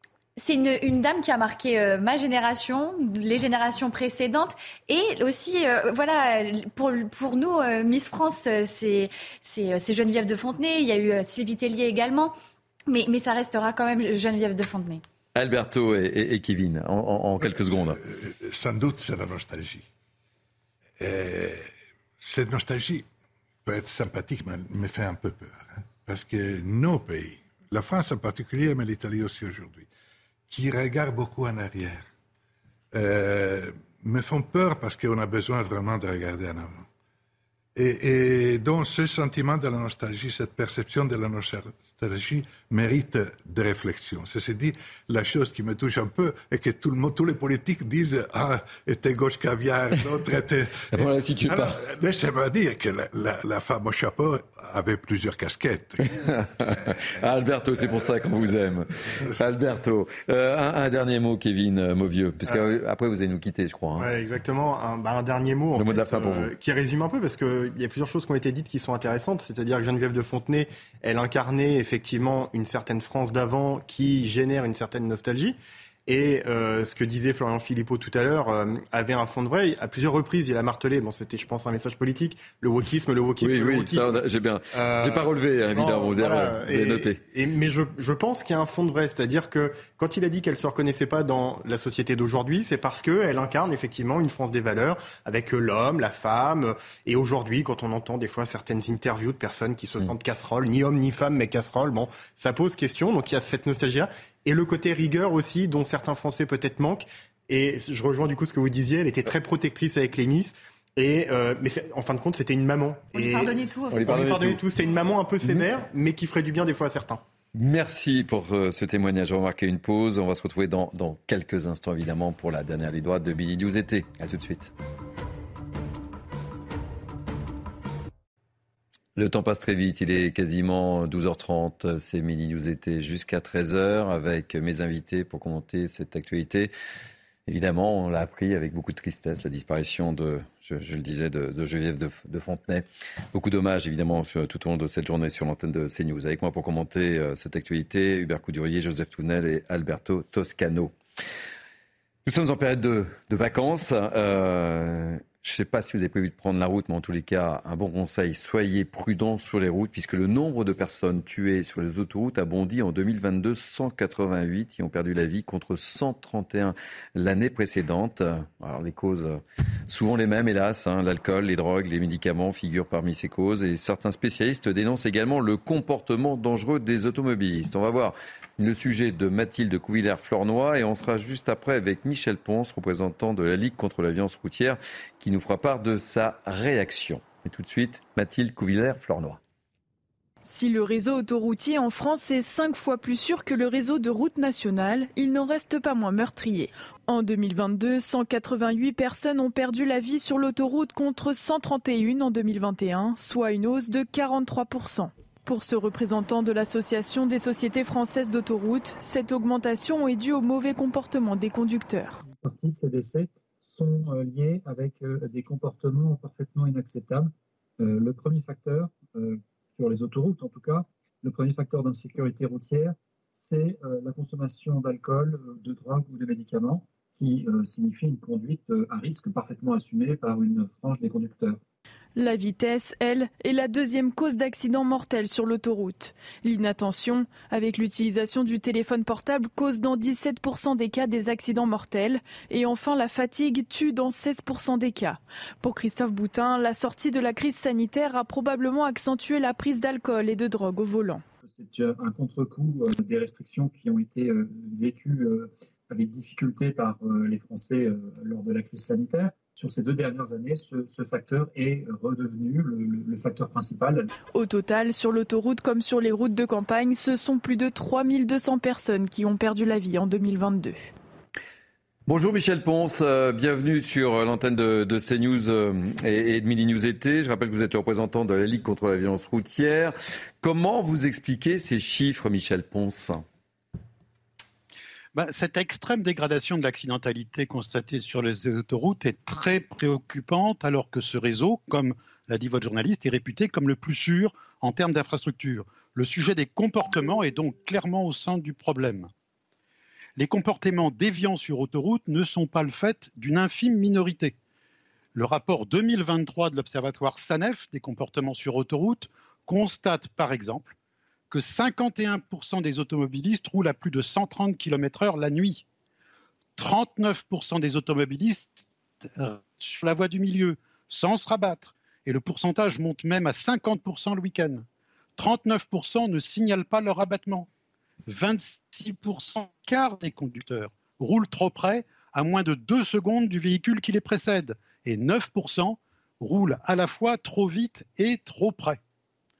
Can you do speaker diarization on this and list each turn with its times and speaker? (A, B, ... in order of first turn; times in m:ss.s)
0:00.4-0:12.3 A
0:12.9-0:15.0 A
0:15.3-0:18.0 B
0:17.5-0:19.9 C
0:21.0-0:23.0 C
0:23.6-0:29.9 C
0:30.5-0:32.0 C
0:32.9-0:36.8 C
0:37.8-0:56.2 C
0:50.9-0:51.8 B
0:56.1-1:04.0 B
1:04.0-1:15.6 D
1:05.7-1:06.5 B
1:16.1-1:24.2 D
1:23.4-1:27.2 B
1:24.7-1:57.2 D
1:53.1-1:54.1 A
1:53.9-1:54.6 B
1:57.5-2:04.7 B
2:09.2-2:16.7 B
2:17.5-2:30.9 B
2:32.2-3:09.4 B
3:10.4-3:32.2 E
3:32.3-3:51.6 F
3:52.2-4:11.2 E
4:11.4-4:24.1 F
4:24.3-4:30.8 E
4:32.1-4:43.2 B
4:45.2-4:59.1 G
5:00.2-5:04.3 G
5:05.1-5:10.7 G
5:11.3-5:15.6 G
5:16.6-5:24.6 G
5:25.2-5:27.5 G
5:28.1-5:38.8 G